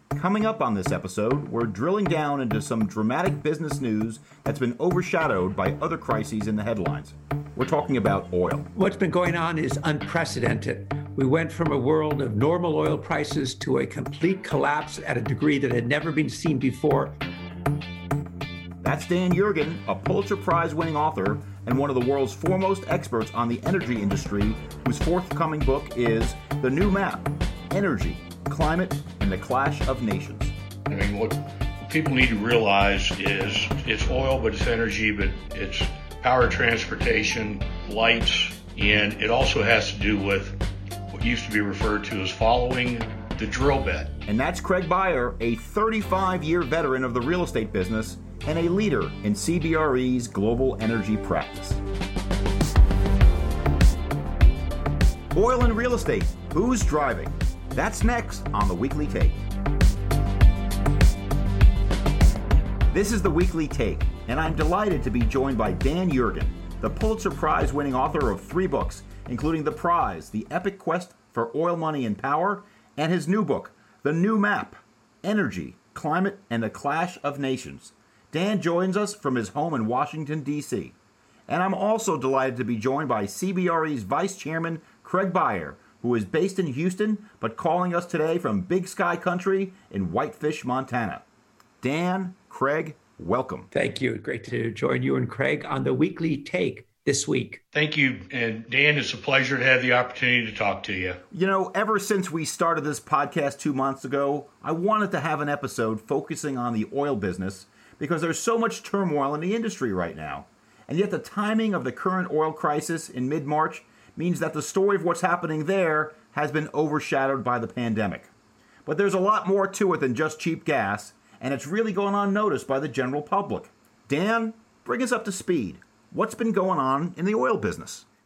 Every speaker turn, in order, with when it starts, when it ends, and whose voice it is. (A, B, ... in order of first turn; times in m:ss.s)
0:00.1-0:08.7 A
0:08.8-0:17.2 B
0:18.8-0:30.5 A
0:30.9-0:40.6 C
0:41.1-0:44.1 C
0:44.3-0:51.8 A
0:55.3-0:59.4 A
1:02.9-1:21.0 A
1:21.5-1:31.2 A
1:31.8-1:33.7 A
1:33.7-1:37.6 B
1:37.7-1:41.2 C
1:41.3-1:58.3 A
1:58.9-2:08.0 A